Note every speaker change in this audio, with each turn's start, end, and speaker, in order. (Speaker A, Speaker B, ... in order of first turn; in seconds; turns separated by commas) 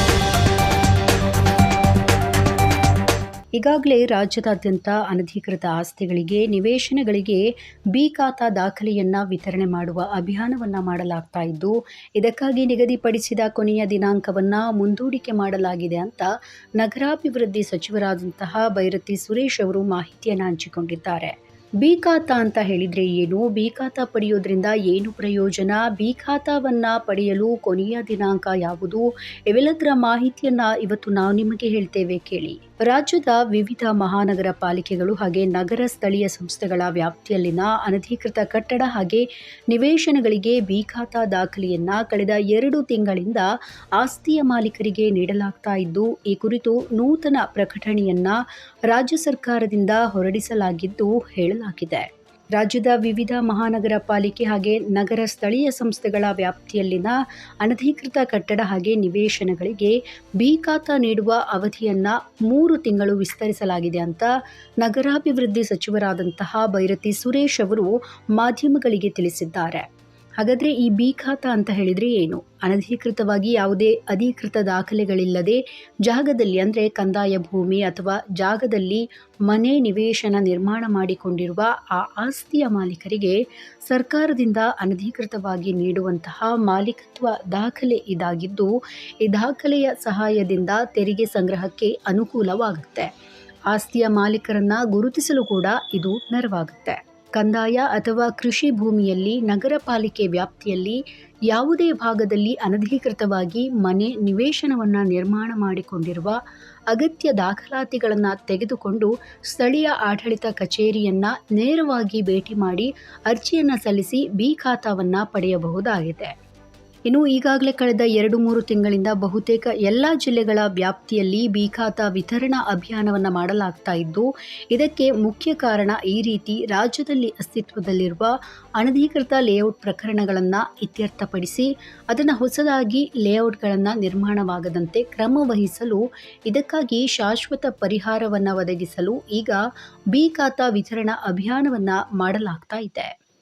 Speaker A: 3.5-69.8, Speaker A: 70.4-93.1, Speaker A: 93.7-116.3, Speaker A: 117.0-139.6, Speaker A: 140.1-143.1